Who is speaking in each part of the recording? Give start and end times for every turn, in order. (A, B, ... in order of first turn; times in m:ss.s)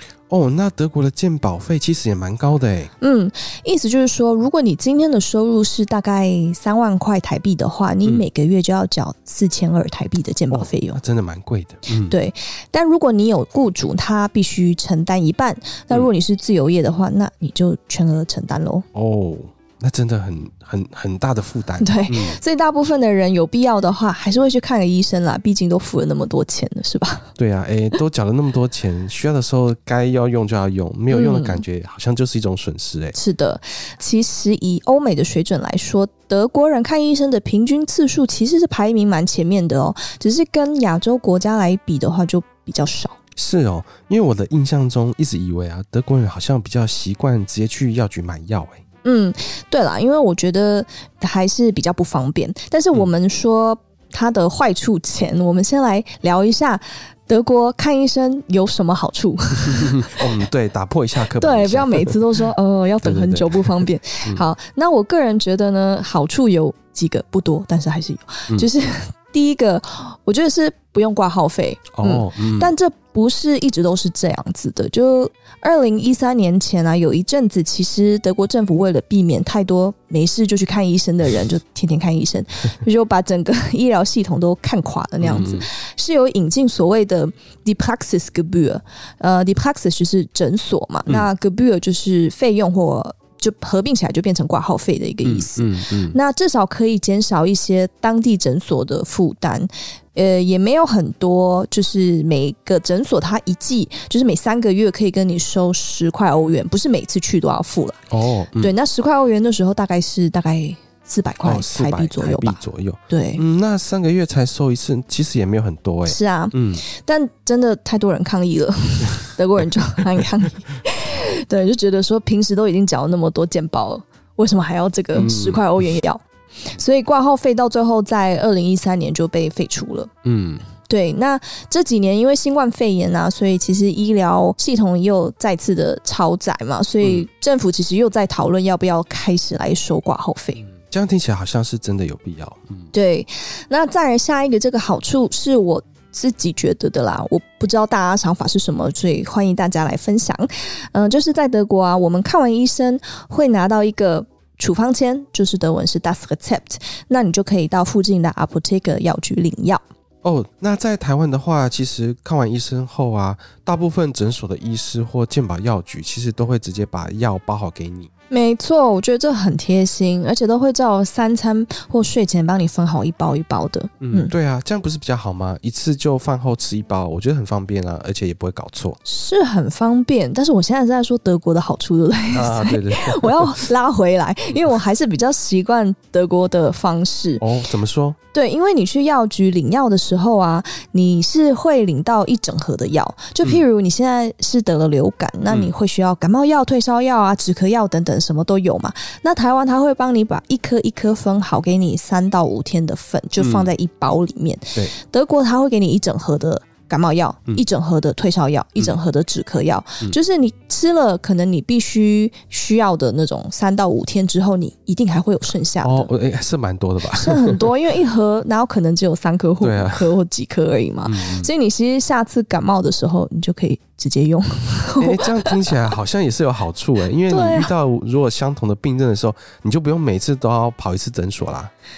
0:00.3-0:02.9 A
0:03.0-0:11.0 B
0:10.5-0:12.1 A
0:12.0-0:18.8 B
0:18.9-0:22.4 A
0:21.8-0:27.3 B
0:27.4-0:33.1 A
0:31.1-0:31.6 B
0:33.1-0:43.2 B
0:43.4-0:48.8 A
0:49.0-1:00.1 B
0:59.7-1:02.2 A
1:01.4-1:48.0 B
1:03.0-1:04.4 A
1:11.9-1:12.7 A
1:25.2-1:25.6 A
1:35.2-1:36.2 A
1:48.1-1:48.7 A
1:48.6-1:53.4 B
1:51.4-1:56.8 A
1:56.0-2:10.1 B
2:05.1-2:05.6 A
2:10.2-2:10.6 A
2:10.9-2:20.6 B
2:20.8-2:22.9 A
2:22.9-2:39.8 B
2:40.2-2:48.1 A
2:48.3-2:54.3 B
2:54.0-2:59.0 A
2:59.0-3:07.4 B
3:02.3-3:03.6 A
3:07.4-3:08.2 A
3:08.3-3:36.1 B
3:23.4-3:23.7 A
3:35.8-3:37.7 A
3:37.1-3:45.8 B
3:39.6-3:40.1 A
3:41.0-3:41.5 A
3:45.0-3:51.7 A
3:47.3-3:47.7 B